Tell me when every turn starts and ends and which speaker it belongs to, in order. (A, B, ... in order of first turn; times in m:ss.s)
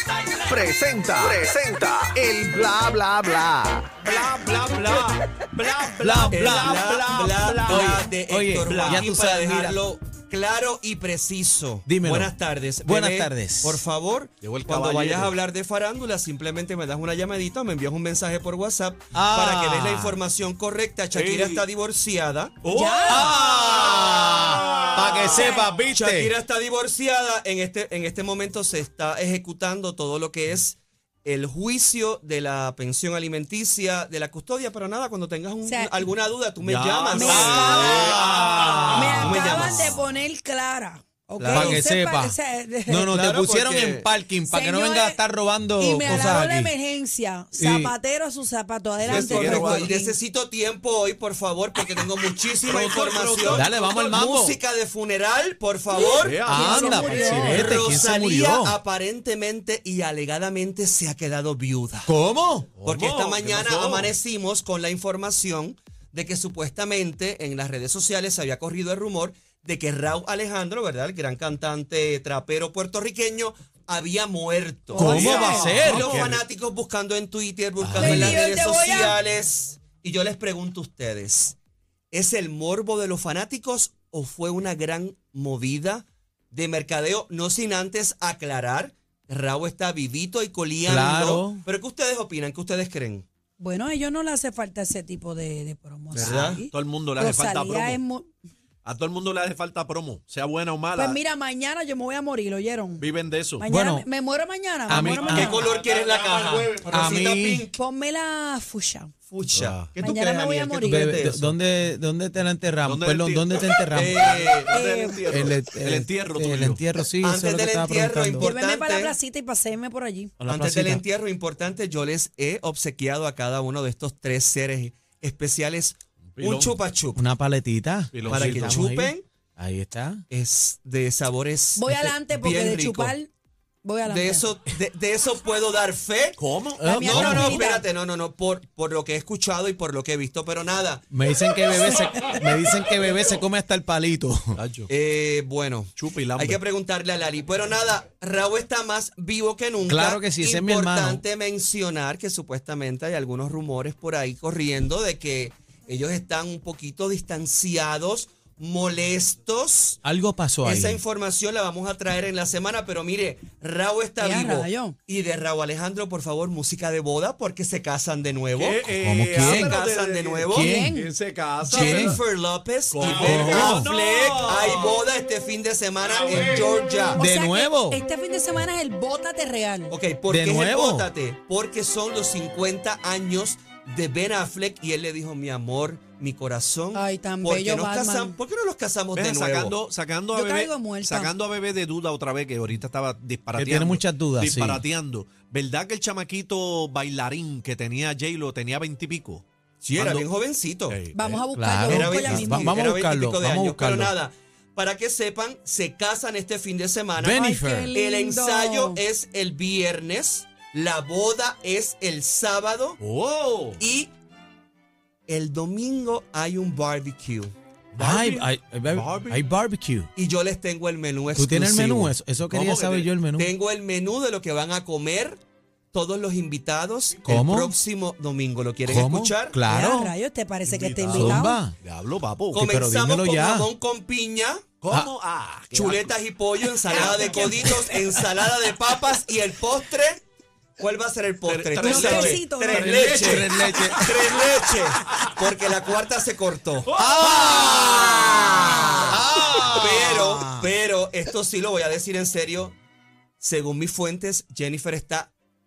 0:00.4-0:01.1 A
0:00.9-0:02.2 B
0:01.7-0:04.0 A
0:04.0-0:08.0 B
0:06.0-0:06.8 C
0:06.3-0:22.6 D
0:07.7-0:09.8 C
0:08.7-0:09.1 B
0:11.9-0:12.3 C
0:12.8-0:13.8 C
0:14.4-0:15.4 B
0:19.1-0:20.2 C
0:21.1-0:21.7 B
0:22.6-0:25.6 B
0:22.7-0:23.3 E
0:23.0-0:26.3 C
0:25.0-0:40.0 D
0:25.4-0:25.6 E
0:35.6-0:36.1 E
0:36.6-0:39.2 B
0:37.1-0:38.2 E
0:37.2-0:39.9 C
0:38.9-0:43.1 E
0:41.4-0:41.9 D
0:41.5-0:46.7 C
0:43.1-0:44.1 D
0:44.5-0:45.2 E
0:45.8-0:50.1 E
0:47.6-0:47.9 C
0:49.0-0:49.9 B
0:49.0-1:02.1 D
0:52.6-0:53.7 B
0:53.5-0:54.6 C
0:55.9-0:57.8 E
0:56.1-0:57.7 B
0:56.4-0:58.8 C
1:02.1-1:02.7 C
1:02.8-1:04.1 B
1:02.8-1:21.6 D
1:15.0-1:16.4 B
1:15.0-1:16.1 C
1:17.8-1:18.4 C
1:18.0-1:19.2 E
1:22.1-1:33.2 D
1:30.9-1:31.6 C
1:33.6-1:38.3 E
1:36.1-1:36.6 D
1:36.7-1:38.0 B
1:38.8-1:41.2 B
1:41.0-1:43.0 E
1:43.0-1:43.6 B
1:43.6-1:45.6 E
1:43.7-1:44.1 C
1:44.9-1:45.6 C
1:44.9-1:47.8 D
1:45.4-1:46.9 B
1:46.9-1:47.6 C
1:47.8-1:49.1 E
1:49.3-1:51.5 D
1:49.5-1:50.0 B
1:50.0-1:51.2 E
1:50.8-1:54.3 C
1:52.8-1:56.8 B
1:53.9-1:54.7 D
1:54.7-1:55.2 E
1:55.3-1:58.5 C
1:57.2-1:59.2 D
1:58.4-2:00.3 E
2:00.4-2:01.0 C
2:00.4-2:07.2 D
2:06.3-2:06.8 B
2:07.2-2:10.2 C
2:08.1-2:08.9 B
2:08.3-2:09.2 D
2:10.3-2:13.2 D
2:11.8-2:13.3 E
2:13.8-2:14.5 E
2:14.0-2:16.4 D
2:16.4-2:17.5 B
2:16.8-2:17.6 C
2:16.8-2:17.9 E
2:17.0-2:21.1 D
2:21.1-2:24.6 C
2:21.6-2:22.0 D
2:24.6-2:24.9 B
2:24.9-2:40.0 D
2:26.0-2:26.6 B
2:29.9-2:31.2 C
2:40.0-2:41.0 C
2:40.6-2:48.8 D
2:44.2-2:45.0 E
2:48.6-2:52.2 B
2:49.0-2:49.8 C
2:49.4-2:50.8 D
2:50.5-2:50.9 C
2:50.5-2:51.1 E
2:51.6-2:57.2 D
2:51.7-2:52.2 C
2:52.9-2:55.0 B
2:53.0-2:53.9 C
2:56.0-2:57.1 B
2:57.2-3:00.0 E
2:57.2-2:58.0 C
2:59.9-3:09.8 D
3:00.3-3:01.1 C
3:06.9-3:08.4 E
3:09.1-3:19.4 B
3:10.3-3:11.3 E
3:13.6-3:14.8 C
3:19.8-3:21.0 D
3:20.0-3:20.3 B
3:20.9-3:21.4 B
3:21.1-3:22.7 E
3:21.5-3:24.1 C
3:21.8-3:33.0 D
3:27.2-3:27.9 C
3:27.4-3:29.0 E
3:33.0-3:33.8 B
3:33.8-3:34.1 D
3:35.3-3:37.5 D
3:37.9-3:39.4 B
3:38.0-3:40.1 C
3:40.2-3:42.2 D
3:41.4-3:43.5 C
3:42.4-3:43.2 B
3:43.4-3:45.4 D
3:45.9-3:49.6 D
3:47.2-3:47.8 C
3:48.9-3:50.1 C
3:49.7-3:51.6 E
3:50.7-3:52.7 B
3:51.1-3:51.8 C
3:52.5-3:54.7 D
3:52.6-3:53.7 C
3:54.8-3:56.2 B
3:55.7-4:00.2 D
3:56.9-3:57.8 B
3:56.9-3:57.9 E
4:00.8-4:06.9 D
4:01.4-4:03.9 B
4:01.8-4:03.0 E
4:03.1-4:04.3 C
4:05.1-4:05.4 B
4:06.9-4:08.7 B
4:07.0-4:10.7 C
4:07.9-4:09.2 D
4:09.8-4:12.8 D
4:13.4-4:15.3 D